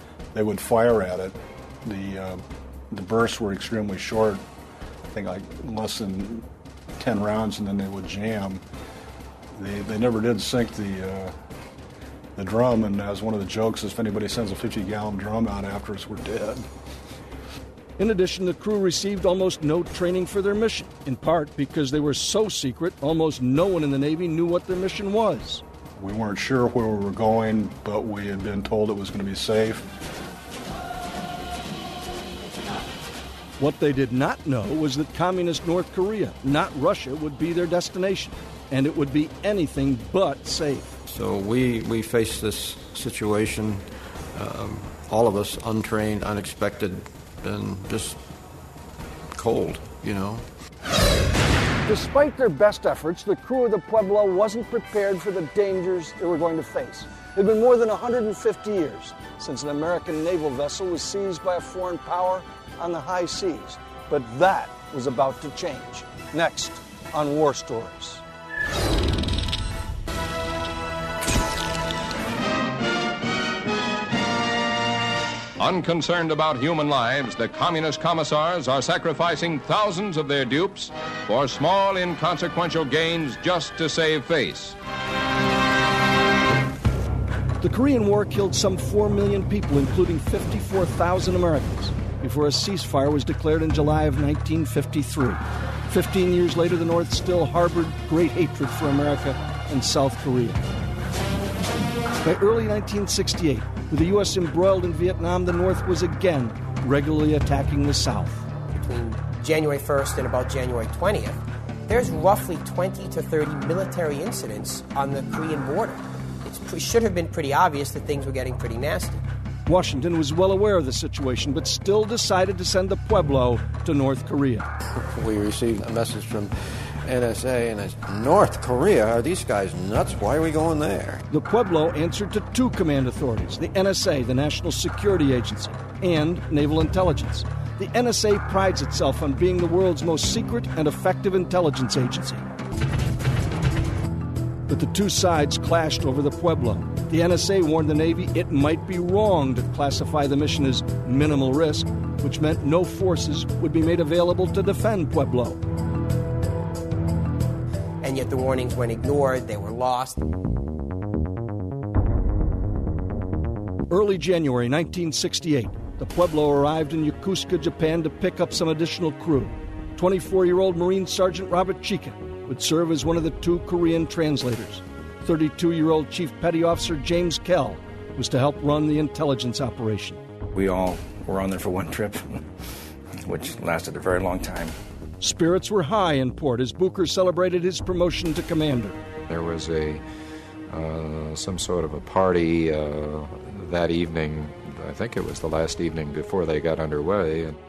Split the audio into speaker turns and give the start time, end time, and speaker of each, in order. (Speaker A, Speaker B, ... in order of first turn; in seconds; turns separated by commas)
Speaker A: 0.3-4.4, Speaker A: 5.1-6.5, Speaker A: 7.0-8.6, Speaker A: 9.5-11.3, Speaker A: 12.3-16.7, Speaker B: 18.0-25.6, Speaker A: 26.0-29.9, Speaker B: 33.6-40.9, Speaker C: 41.0-48.2, Speaker C: 49.3-50.5, Speaker B: 51.9-68.2, Speaker D: 75.6-84.7, Speaker B: 87.6-100.6, Speaker B: 102.2-108.4, Speaker E: 108.7-119.2, Speaker B: 119.7-124.7, Speaker C: 124.9-131.2, Speaker B: 131.3-142.4, Speaker B: 144.7-155.6, Speaker E: 158.0-160.2, Speaker B: 163.9-180.2, Speaker F: 180.5-182.5, Speaker F: 183.2-184.7, Speaker B: 185.2-189.0, Speaker G: 189.3-190.0, Speaker G: 190.7-197.6